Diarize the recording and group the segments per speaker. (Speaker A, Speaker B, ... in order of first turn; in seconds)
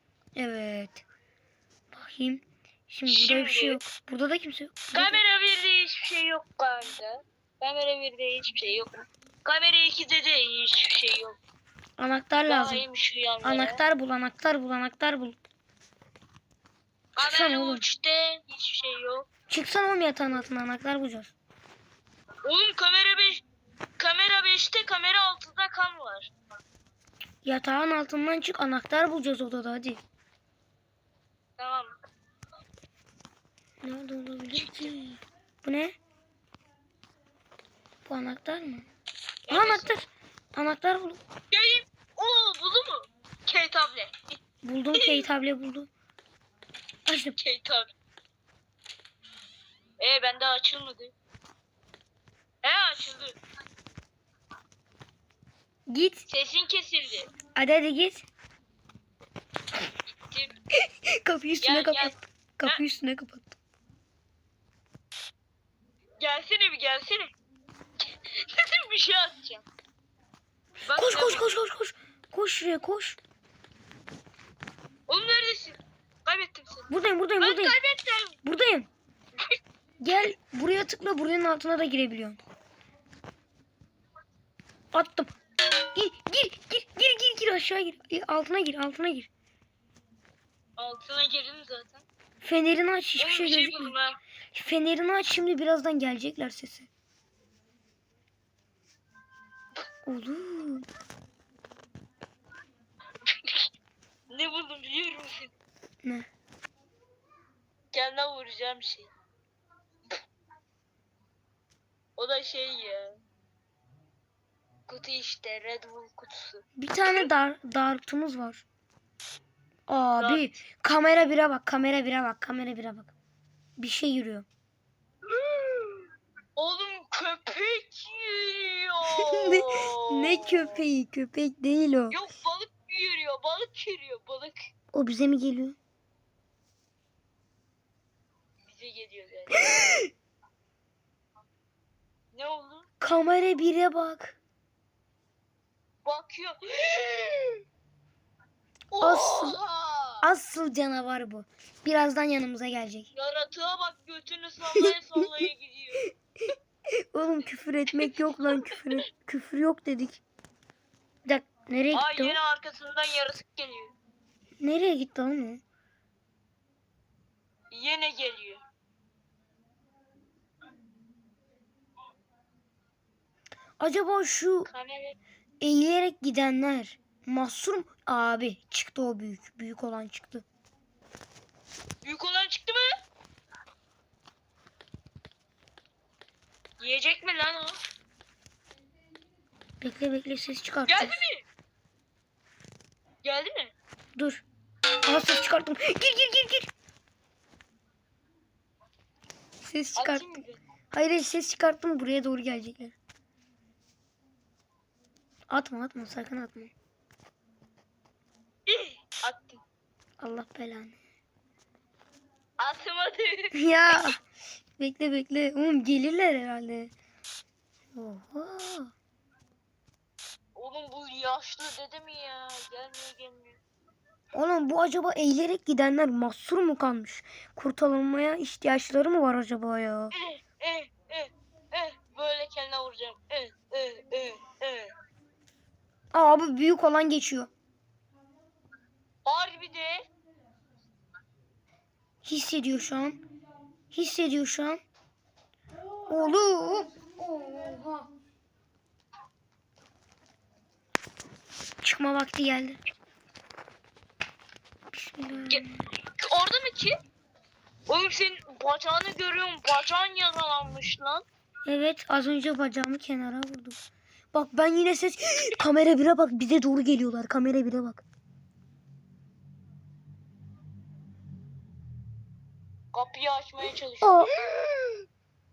Speaker A: 0.3-1.0, 1.9-5.2, 12.0-12.8, 13.4-15.4, 17.2-17.8, 19.5-21.3, 27.4-30.0, 33.8-36.0, 38.0-38.9, 39.5-41.2, 44.6-45.9, 47.0-47.4, 55.9-56.2, 57.5-58.2, 60.8-63.6, 70.8-73.2, 76.9-77.8, 78.4-78.9, 80.0-82.4, 84.9-85.3, 85.9-89.3, 92.4-93.9, 94.5-96.9, 100.0-100.9, 106.0-106.3, 116.8-118.6, 119.9-123.1, 123.8-124.5, 129.1-132.2, 134.9-135.8, 139.8-140.1, 143.0-144.3, 149.0-149.6, 150.2-153.1, 154.8-155.4, 157.1-160.2, 161.2-162.4, 164.6-165.6, 173.8-174.7, 175.6-180.4, 189.8-191.2, 194.2-194.4, 195.0-196.7, 199.6-200.4, 200.9-202.9, 205.5-206.7, 210.2-210.9, 213.5-214.2, 214.8-216.9, 217.9-218.9, 224.3-230.1, 236.1-237.5, 242.2-243.2, 243.9-244.8, 246.1-248.1, 251.8-252.8, 254.9-255.8, 261.6-263.8, 264.3-268.0, 274.0-274.9
Speaker B: 3.0-3.8, 4.9-11.4, 12.4-13.8, 17.2-19.3, 22.4-23.4, 24.0-26.3, 31.6-31.9, 34.5-34.9, 39.5-40.0, 41.5-44.1, 44.9-45.2, 47.4-47.9, 50.0-51.1, 52.6-53.4, 56.3-57.3, 60.1-60.5, 61.6-62.1, 66.2-67.3, 68.4-69.7, 70.8-71.5, 75.1-76.9, 77.4-78.3, 90.8-92.0, 93.2-94.2, 103.3-103.6, 104.3-105.5, 107.9-109.1, 112.2-113.2, 114.9-116.6, 120.2-120.5, 125.3-130.8, 132.1-134.6, 138.6-139.9, 142.3-142.9, 146.0-147.6, 148.9-150.3, 153.1-156.1, 157.9-159.0, 161.9-163.9, 167.7-168.6, 174.7-175.2, 182.0-182.9, 186.8-187.8, 190.9-191.4, 193.2-193.7, 199.9-200.6, 208.7-209.6, 212.6-214.1, 220.6-223.6, 230.1-234.9, 239.2-240.0, 256.2-257.0, 257.9-261.2, 272.9-274.3